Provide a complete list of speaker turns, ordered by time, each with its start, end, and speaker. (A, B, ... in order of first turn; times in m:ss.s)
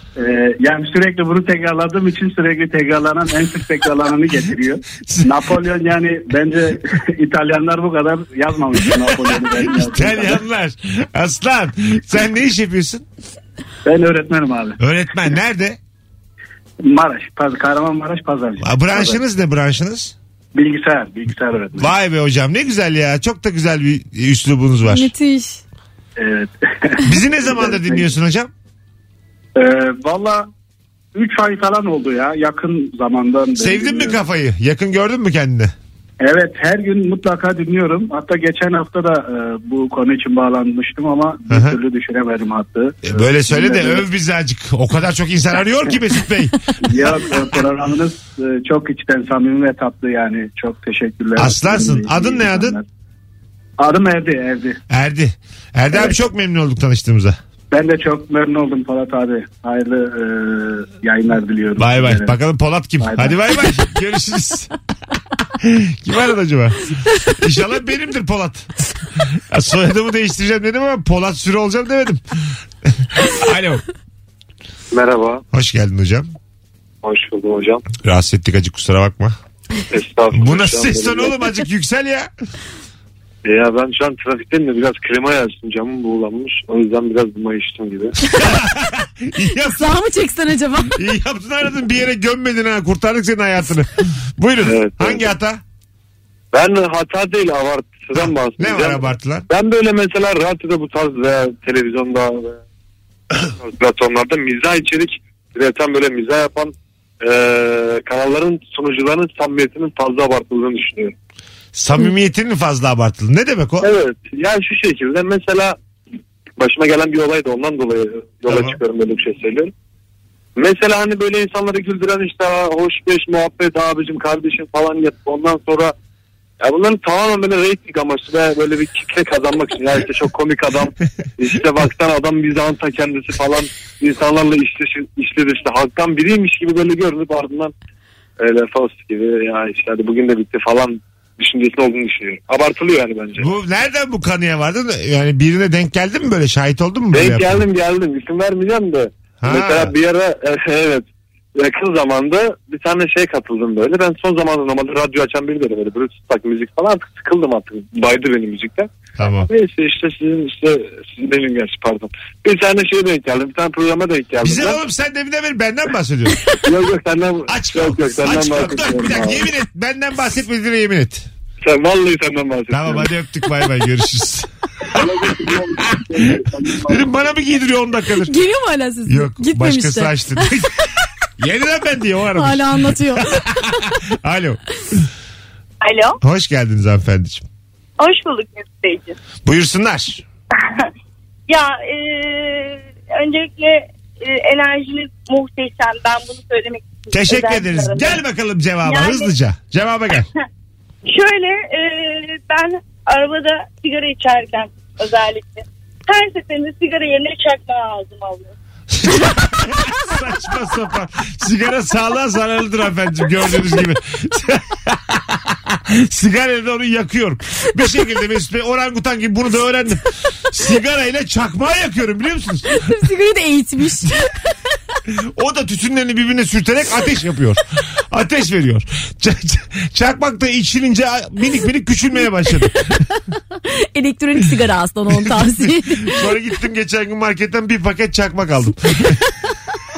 0:00.2-0:10.4 A
0:04.9-0:05.7 B
0:09.2-0:13.0 B
0:13.8-0:14.8 A
0:14.8-0:15.8 B
0:16.8-0:19.2 A
0:18.6-0:20.2 B
0:20.6-0:21.9 A
0:21.8-0:25.1 B
0:24.9-0:25.6 C
0:26.2-0:28.1 A
0:27.0-0:28.5 B
0:29.6-0:30.5 A
0:31.1-0:34.2 A
0:33.6-0:35.7 B
0:36.2-0:44.1 A
0:41.5-0:41.8 B
0:43.0-0:47.4 B
0:46.8-0:52.8 A
0:51.4-0:52.8 B
0:53.8-0:54.8 A
0:54.9-0:57.4 B
0:57.7-1:02.4 A
1:01.8-1:04.7 B
1:03.0-1:03.4 A
1:05.6-1:12.2 B
1:12.9-1:13.8 B
1:14.9-1:15.4 D
1:15.5-1:16.3 B
1:17.0-1:17.8 D
1:18.0-1:19.4 B
1:19.9-1:21.4 D
1:20.3-1:22.3 B
1:23.4-1:28.2 D
1:28.3-1:29.8 B
1:29.7-1:31.0 C
1:30.9-1:35.6 B
1:34.6-1:35.3 D
1:36.5-1:42.6 D
1:38.1-1:39.5 B
1:43.4-1:51.1 D
1:51.8-1:53.9 B
1:53.8-1:55.8 D
1:56.6-1:59.7 D
1:58.5-1:58.8 B
2:00.6-2:06.0 D
2:06.6-2:17.7 D
2:18.4-2:23.5 D
2:23.4-2:27.6 B
2:27.1-2:44.8 D
2:29.4-2:29.9 B
2:39.2-2:39.5 B
2:44.4-2:46.4 B
2:46.6-2:49.5 D
2:47.5-2:51.3 B
2:51.6-2:53.1 D
2:52.7-2:56.2 B
2:54.9-2:57.3 D
2:56.8-2:58.3 B
2:58.3-3:00.6 C
2:59.1-3:00.7 B
3:01.4-3:04.6 B
3:02.4-3:04.0 C
3:05.8-3:06.2 E
3:06.2-3:07.5 B
3:08.0-3:09.2 E
3:09.4-3:10.2 B
3:10.6-3:10.9 E
3:11.5-3:18.2 E
3:17.1-3:20.3 B
3:18.8-3:19.3 E
3:21.1-3:28.5 E
3:29.0-3:42.9 B
3:42.7-3:44.5 C
3:45.1-3:53.0 B
3:52.9-3:56.2 C
3:55.2-3:59.2 B